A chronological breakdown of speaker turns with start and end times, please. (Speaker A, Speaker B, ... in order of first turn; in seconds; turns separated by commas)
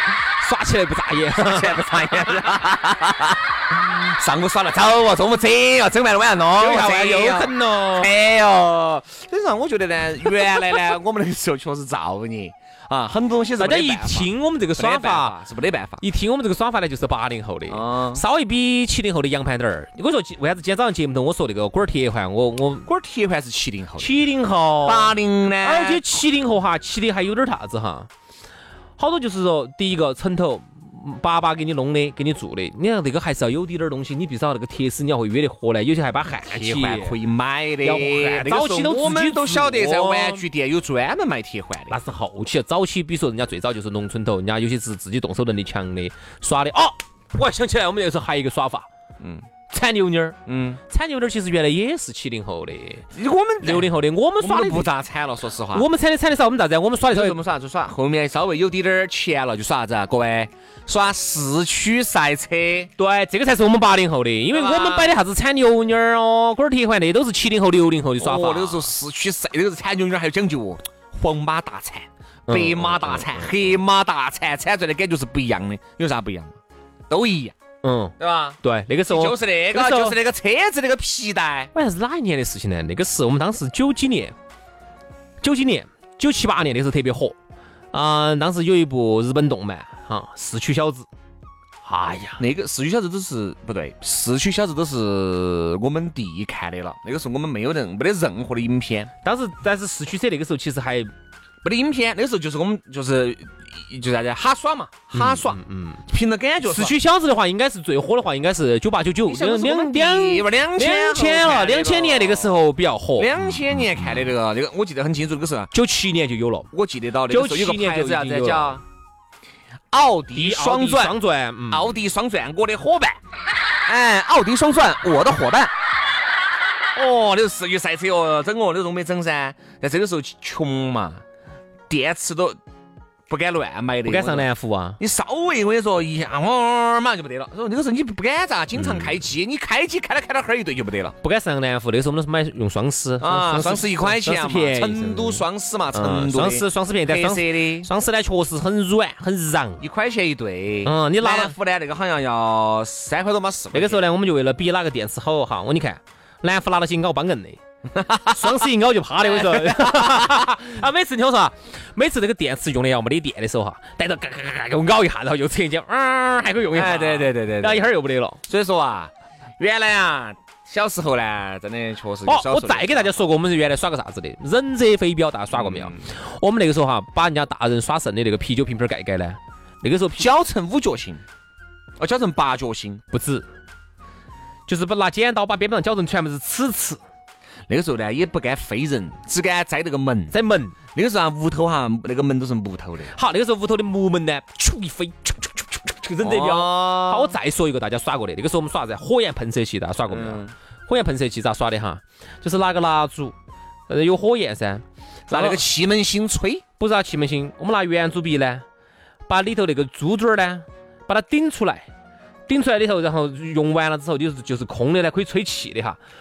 Speaker A: 0.4-2.5, Speaker B: 1.4-16.0, Speaker A: 6.6-8.1, Speaker A: 13.6-15.4, Speaker A: 16.0-22.9, Speaker B: 17.7-18.2, Speaker B: 22.9-24.2, Speaker A: 24.0-28.1, Speaker B: 24.8-26.1, Speaker A: 29.0-37.2, Speaker B: 36.5-42.0, Speaker A: 37.8-40.4, Speaker A: 41.9-48.9, Speaker B: 49.2-49.5, Speaker A: 49.7-53.0, Speaker B: 50.5-50.8, Speaker B: 53.1-55.9, Speaker A: 53.6-54.9, Speaker A: 55.7-57.4, Speaker B: 57.1-62.9, Speaker A: 63.0-68.9, Speaker B: 64.5-65.2, Speaker B: 68.2-76.6, Speaker A: 72.5-73.6, Speaker B: 77.1-77.6, Speaker A: 77.8-80.2, Speaker B: 78.2-81.7, Speaker A: 81.7-84.3, Speaker A: 85.4-87.4, Speaker A: 87.9-91.1, Speaker A: 91.9-92.4, Speaker B: 92.4-99.1, Speaker A: 99.2-101.1, Speaker B: 101.6-107.0, Speaker A: 105.1-106.0, Speaker A: 106.6-113.4, Speaker B: 109.3-112.5, Speaker B: 113.2-115.7, Speaker A: 115.7-116.7, Speaker B: 116.7-118.8, Speaker A: 117.3-118.8, Speaker B: 119.9-121.2, Speaker A: 120.3-122.0, Speaker B: 121.7-123.2, Speaker B: 123.9-125.7, Speaker B: 127.0-131.2, Speaker B: 131.9-132.6, Speaker B: 133.3-141.2, Speaker A: 134.1-135.0, Speaker A: 138.8-139.2, Speaker A: 141.2-149.8, Speaker B: 143.2-147.9, Speaker B: 149.8-154.0, Speaker A: 150.8-151.6, Speaker A: 153.7-157.6, Speaker B: 157.9-158.6, Speaker A: 158.3-168.4, Speaker B: 159.2-160.4, Speaker B: 166.7-167.9, Speaker B: 168.5-173.2, Speaker A: 172.3-180.2, Speaker B: 175.6-176.0, Speaker B: 180.2-181.2, Speaker B: 182.0-183.0, Speaker A: 183.1-183.5, Speaker A: 184.7-187.0, Speaker B: 187.7-190.3, Speaker A: 190.3-190.8, Speaker B: 190.9-193.1, Speaker A: 193.1-203.3, Speaker B: 196.2-197.4, Speaker B: 200.1-200.5, Speaker A: 203.9-205.6, Speaker B: 205.3-206.6, Speaker A: 206.8-208.6, Speaker A: 209.3-211.9, Speaker A: 212.5-216.0